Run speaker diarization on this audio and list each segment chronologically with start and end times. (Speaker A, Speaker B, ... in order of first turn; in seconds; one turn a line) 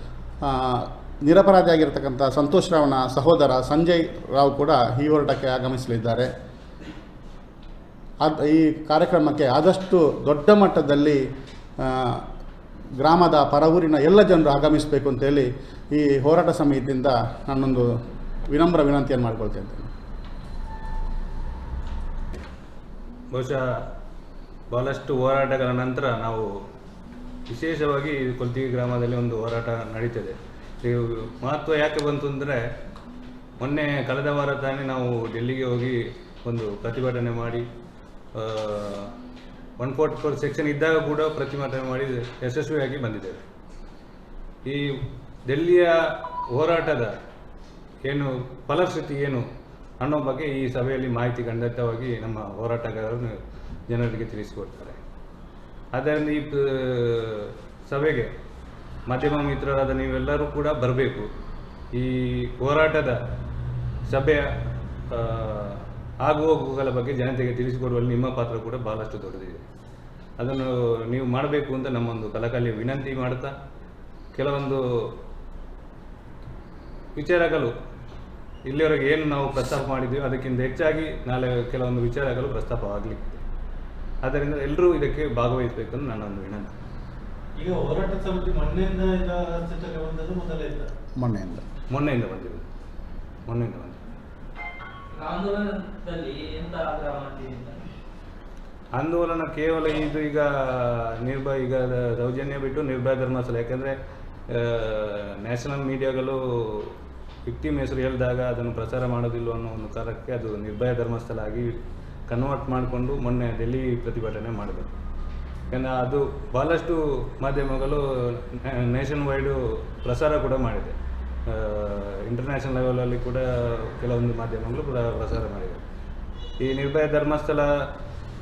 Speaker A: 0.4-6.3
Speaker A: 8.2-11.2
Speaker A: 11.8-12.2
Speaker A: 13.0-17.9
Speaker A: 18.5-19.9
Speaker B: 23.3-23.6
Speaker B: 24.7-26.5
Speaker B: 27.5-32.6
Speaker B: 33.6-37.6
Speaker B: 38.4-39.1
Speaker B: 39.8-43.4
Speaker B: 44.7-46.0
Speaker B: 46.5-47.1
Speaker B: 48.0-49.4
Speaker B: 50.0-53.4
Speaker B: 53.9-55.0
Speaker B: 55.9-58.3
Speaker B: 59.1-61.3
Speaker B: 61.9-63.2
Speaker B: 64.1-64.5
Speaker B: 65.1-69.6
Speaker B: 70.4-73.5
Speaker B: 74.3-75.1
Speaker B: 77.2-77.7
Speaker B: 78.7-83.4
Speaker B: 84.2-86.7
Speaker C: 87.6-90.9
Speaker A: 91.2-91.6
Speaker B: 91.9-92.6
Speaker B: 93.5-94.0
Speaker D: 95.1-97.8
Speaker B: 99.0-103.9
Speaker B: 104.5-106.9
Speaker B: 107.5-111.7
Speaker B: 112.3-114.9
Speaker B: 115.7-121.0
Speaker B: 121.5-125.8
Speaker B: 126.6-127.7